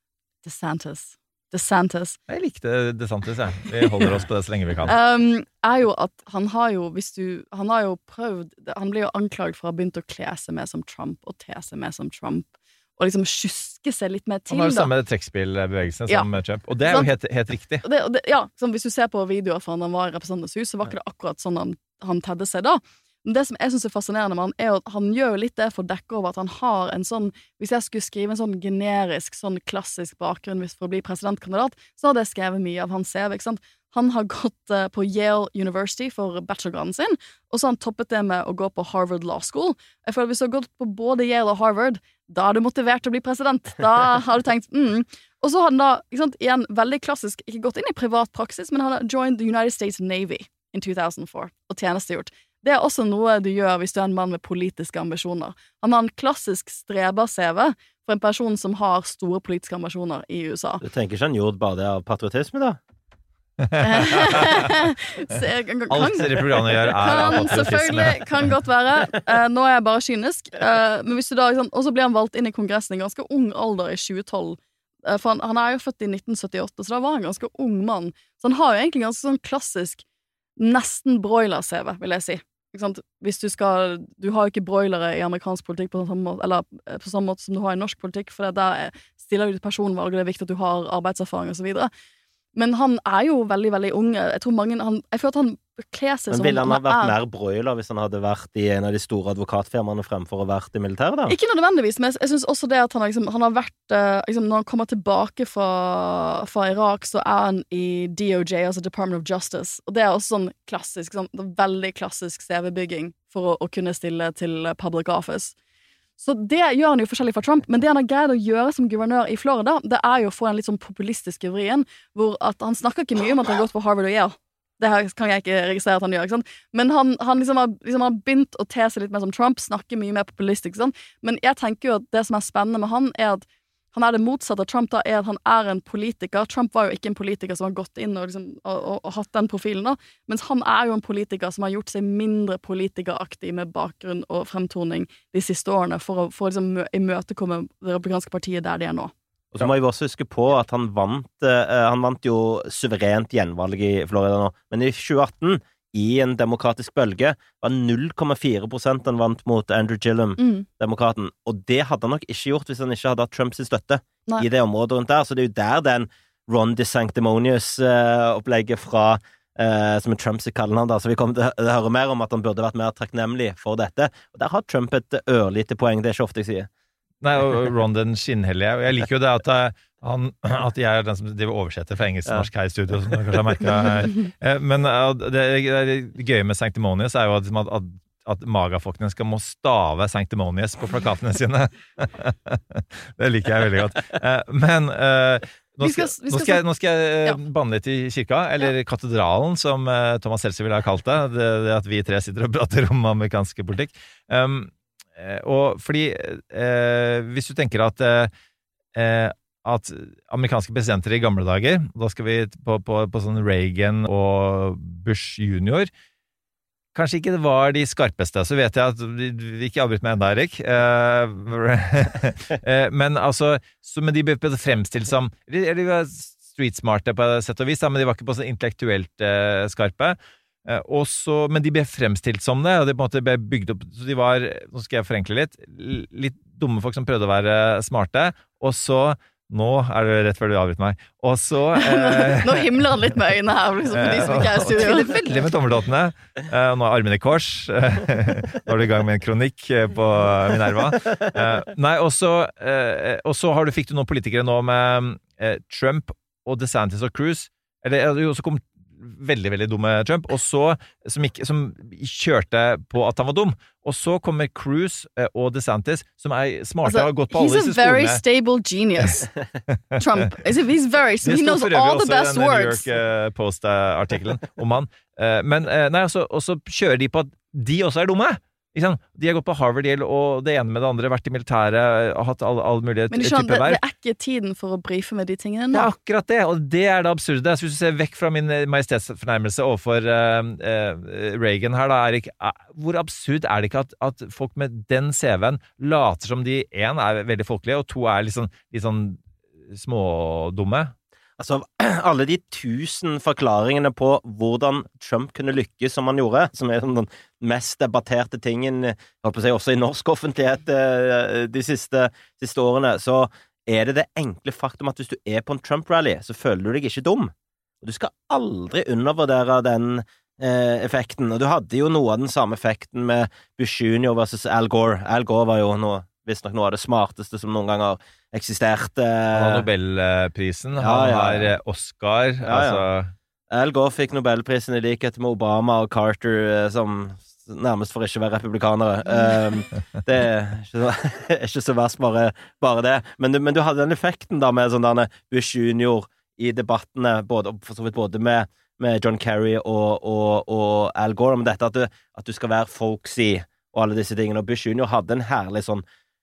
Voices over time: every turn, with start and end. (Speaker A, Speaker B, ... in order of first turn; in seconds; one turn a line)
Speaker A: 0.4-2.2
Speaker B: 2.3-4.9
Speaker A: 4.9-14.9
Speaker B: 14.5-17.8
Speaker A: 16.9-17.1
Speaker A: 17.8-60.8
Speaker C: 60.8-62.8
Speaker B: 63.6-64.4
Speaker A: 63.8-80.0
Speaker B: 65.9-68.5
Speaker A: 80.6-91.9
Speaker A: 92.5-97.2
Speaker C: 96.3-101.3
Speaker A: 101.3-115.5
Speaker A: 116.2-149.1
Speaker C: 149.5-176.7
Speaker A: 160.4-160.7
Speaker B: 177.2-208.3
Speaker A: 195.8-196.6
Speaker B: 208.9-215.9
Speaker B: 216.9-243.1
Speaker A: 241.8-245.3
Speaker B: 243.9-268.2
Speaker A: 266.8-269.3
Speaker A: 270.0-272.9
Speaker B: 271.2-283.8
Speaker A: 283.1-285.9
Speaker B: 285.7-300.9
Speaker C: 301.4-329.7
Speaker B: 329.3-333.1
Speaker C: 330.8-331.5
Speaker C: 332.4-332.8
Speaker C: 333.5-355.8